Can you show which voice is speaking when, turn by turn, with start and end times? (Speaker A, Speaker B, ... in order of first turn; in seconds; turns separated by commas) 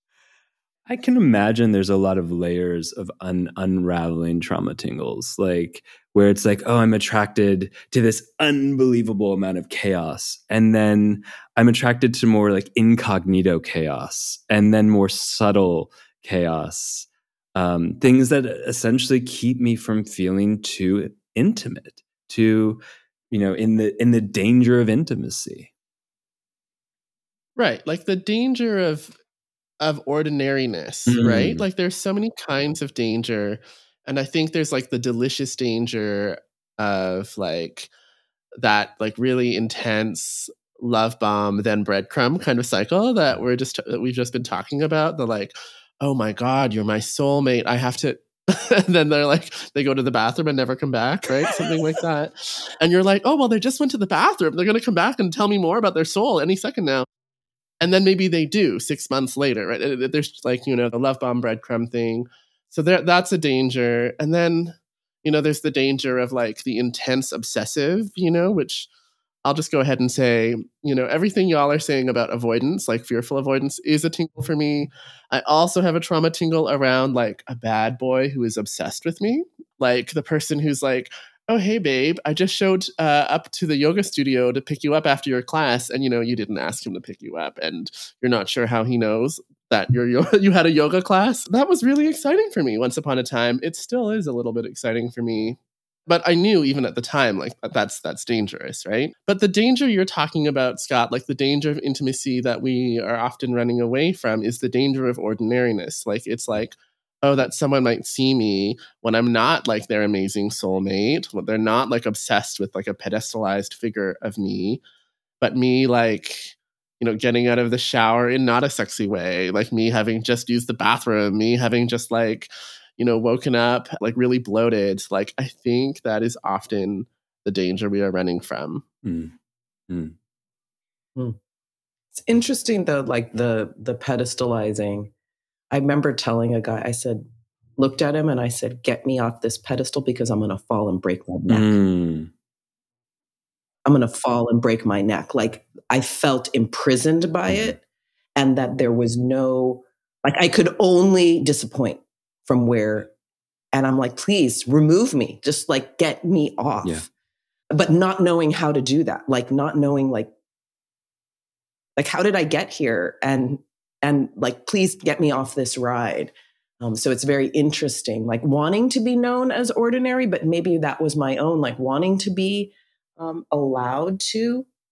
Speaker A: 0.9-22.8, Speaker A: 23.3-25.7, Speaker B: 27.6-29.1, Speaker B: 29.8-37.9, Speaker A: 31.1-31.6, Speaker B: 38.6-57.0, Speaker B: 57.8-68.9, Speaker B: 69.4-114.8, Speaker B: 115.4-128.8, Speaker A: 129.0-129.3, Speaker A: 129.9-130.1, Speaker C: 132.1-135.1, Speaker C: 135.7-141.7, Speaker A: 141.5-142.3, Speaker C: 143.8-147.8, Speaker C: 148.3-153.1, Speaker C: 153.7-157.1, Speaker C: 157.7-160.3, Speaker C: 162.0-174.7